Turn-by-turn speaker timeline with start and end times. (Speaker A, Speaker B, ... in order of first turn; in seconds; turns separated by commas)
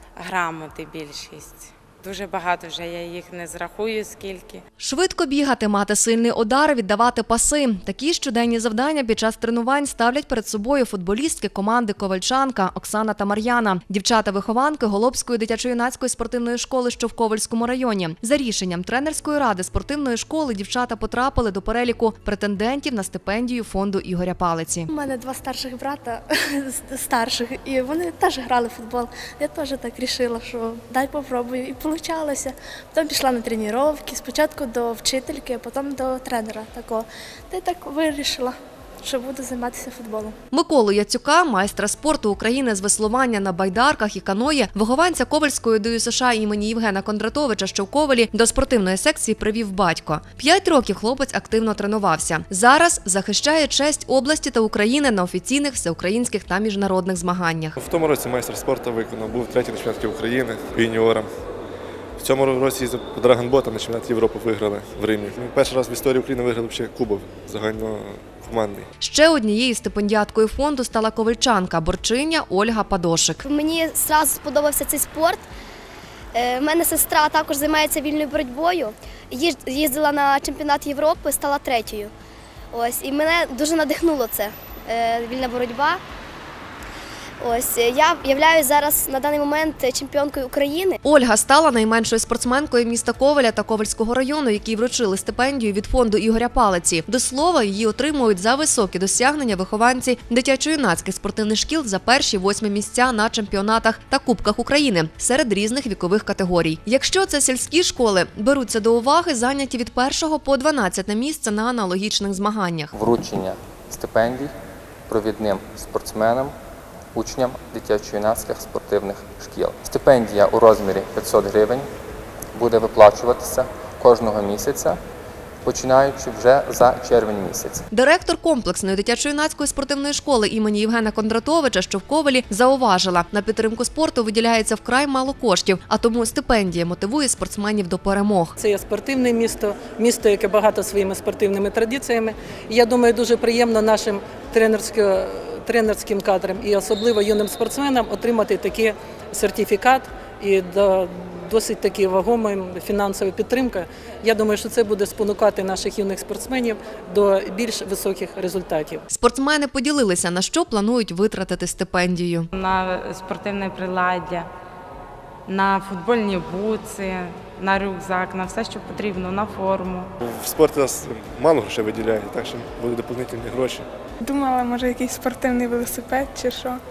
Speaker A: 0.2-4.6, Speaker B: 4.8-24.9, Speaker C: 24.9-40.3, Speaker B: 40.5-57.8, Speaker D: 57.8-61.3, Speaker D: 62.2-68.8, Speaker B: 69.0-73.4, Speaker E: 73.4-75.4, Speaker E: 76.3-82.1, Speaker E: 82.7-86.0, Speaker E: 87.4-91.0, Speaker B: 91.0-112.9, Speaker F: 112.9-114.5, Speaker F: 115.1-116.5, Speaker F: 117.1-121.9, Speaker F: 122.5-125.0, Speaker F: 125.6-127.8, Speaker B: 127.9-138.6, Speaker G: 138.6-159.0, Speaker B: 159.1-162.5, Speaker A: 162.5-164.5, Speaker A: 165.5-170.1, Speaker D: 170.2-173.9, Speaker H: 174.2-176.8